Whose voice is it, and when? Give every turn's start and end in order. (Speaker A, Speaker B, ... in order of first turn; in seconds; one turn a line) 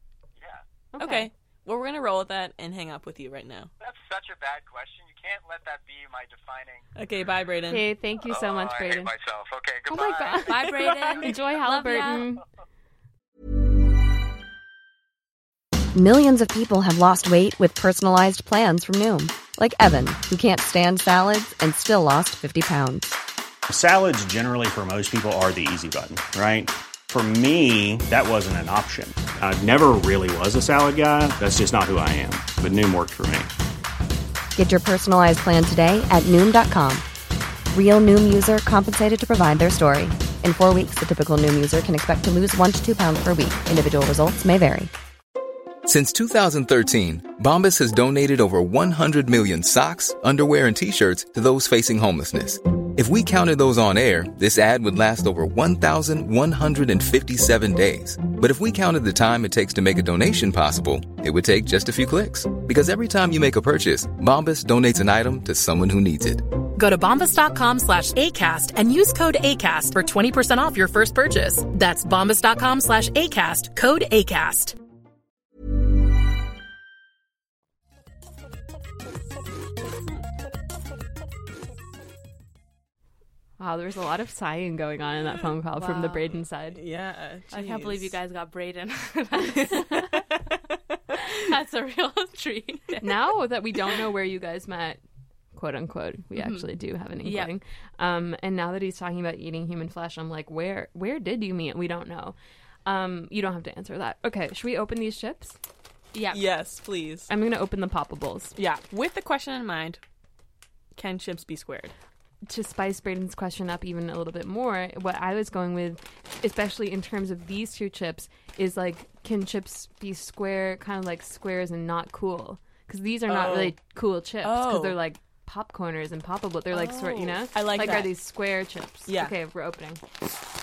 Speaker A: 0.9-1.3
Speaker B: 1.0-3.7
Speaker C: 3.8-6.9
Speaker B: 7.0-7.8
Speaker A: 7.7-9.1
Speaker C: 8.2-12.2
Speaker A: 9.9-12.4
Speaker D: 10.4-12.3
Speaker E: 15.9-23.1
Speaker F: 23.7-33.5
Speaker E: 34.5-37.0
Speaker E: 37.7-44.9
Speaker G: 45.9-66.5
Speaker H: 66.7-74.7
Speaker A: 83.6-86.8
Speaker D: 85.8-86.3
Speaker B: 86.7-88.2
Speaker D: 87.5-90.2
Speaker B: 89.7-90.0
Speaker D: 91.3-93.1
Speaker A: 93.0-95.0
Speaker A: 95.5-105.6
Speaker D: 96.3-96.7
Speaker D: 97.2-97.5
Speaker D: 106.1-106.4
Speaker B: 106.3-107.3
Speaker A: 107.3-108.5
Speaker B: 108.5-110.0
Speaker B: 111.0-112.0
Speaker A: 112.5-130.0
Speaker B: 123.3-123.8
Speaker B: 124.4-125.0
Speaker B: 126.7-128.2
Speaker B: 129.1-129.3